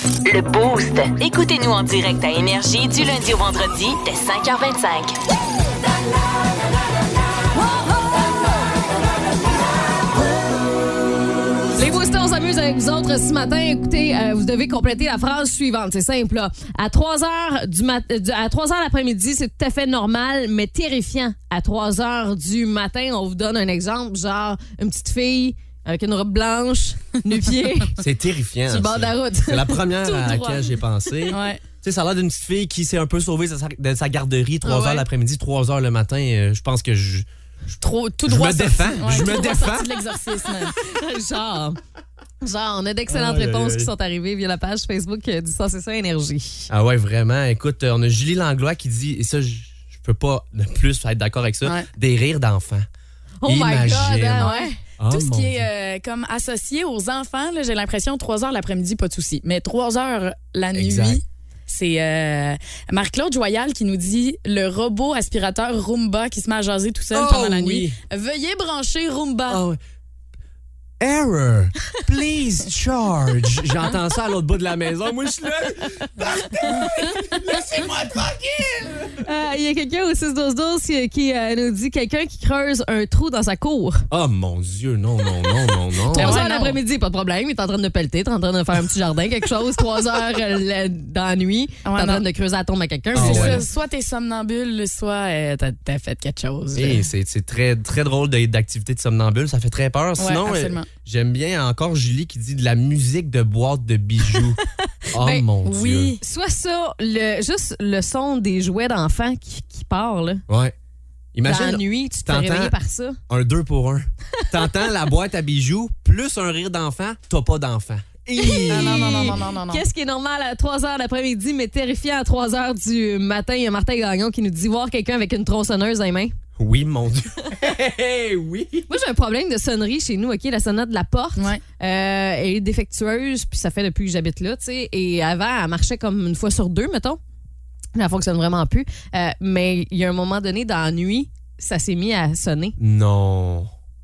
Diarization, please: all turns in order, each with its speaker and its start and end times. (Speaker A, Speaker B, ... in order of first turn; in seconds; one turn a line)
Speaker A: 0.2-5.2
Speaker B: 7.8-8.2
Speaker B: 11.8-28.0
Speaker C: 28.0-37.3
Speaker B: 28.7-29.9
Speaker D: 30.1-31.6
Speaker B: 34.6-35.0
Speaker D: 37.8-40.8
Speaker C: 38.2-40.0
Speaker B: 40.8-41.8
Speaker B: 42.4-46.7
Speaker C: 43.1-43.9
Speaker C: 46.7-52.9
Speaker B: 53.4-54.7
Speaker C: 53.4-55.6
Speaker D: 54.4-69.6
Speaker C: 60.7-61.2
Speaker C: 67.1-68.0
Speaker C: 69.5-69.8
Speaker C: 71.0-79.2
Speaker B: 79.2-84.0
Speaker C: 84.1-86.4
Speaker D: 86.1-86.8
Speaker B: 86.1-93.6
Speaker D: 91.8-92.2
Speaker C: 93.1-93.6
Speaker D: 93.1-97.1
Speaker C: 96.7-106.2
Speaker D: 100.2-100.9
Speaker B: 105.2-105.4
Speaker D: 105.6-106.2
Speaker B: 106.2-110.4
Speaker C: 110.5-110.7
Speaker C: 111.3-112.7
Speaker B: 111.4-113.2
Speaker C: 113.3-119.4
Speaker B: 114.4-114.8
Speaker B: 118.4-126.4
Speaker D: 118.7-119.8
Speaker C: 126.6-128.9
Speaker B: 128.9-137.2
Speaker D: 131.4-131.6
Speaker B: 137.9-142.8
Speaker C: 142.8-143.7